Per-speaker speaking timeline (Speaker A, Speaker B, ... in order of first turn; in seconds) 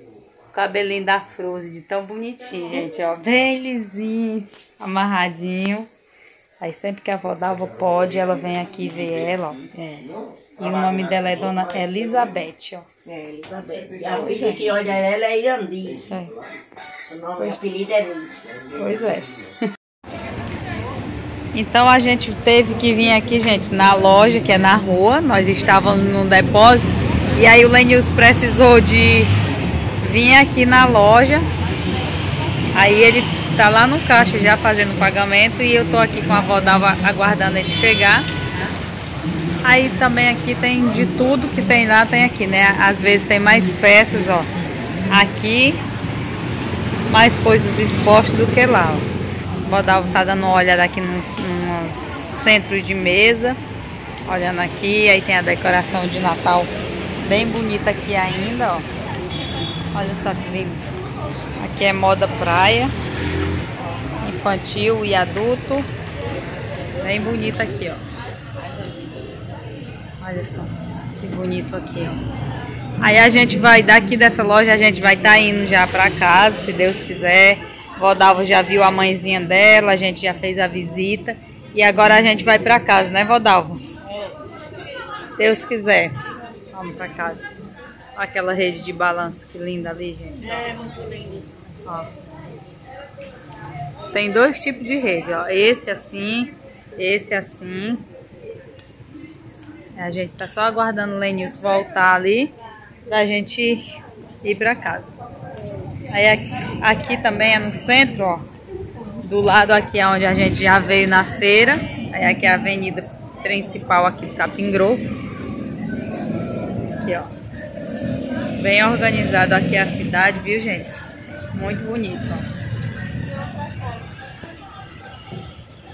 Speaker A: 0.5-5.9, 6.6-9.7, 10.6-12.8, 14.2-14.7, 16.1-16.4, 18.8-19.4, 21.5-29.3, 30.0-31.5, 32.7-38.3, 39.6-44.5, 45.1-45.8, 47.1-49.1, 49.6-53.6, 54.3-56.7, 57.2-58.9, 59.9-60.9, 61.6-62.9, 64.0-65.9, 67.0-68.0, 70.2-72.2, 73.0-83.8, 85.4-86.2, 86.7-87.5, 88.1-90.7, 94.1-98.0, 100.0-102.5, 103.1-105.2, 106.1-108.4, 109.2-115.2, 116.9-117.3, 118.6-122.5
Speaker B: 9.7-10.1, 13.0-16.1, 17.1-18.6, 90.4-91.7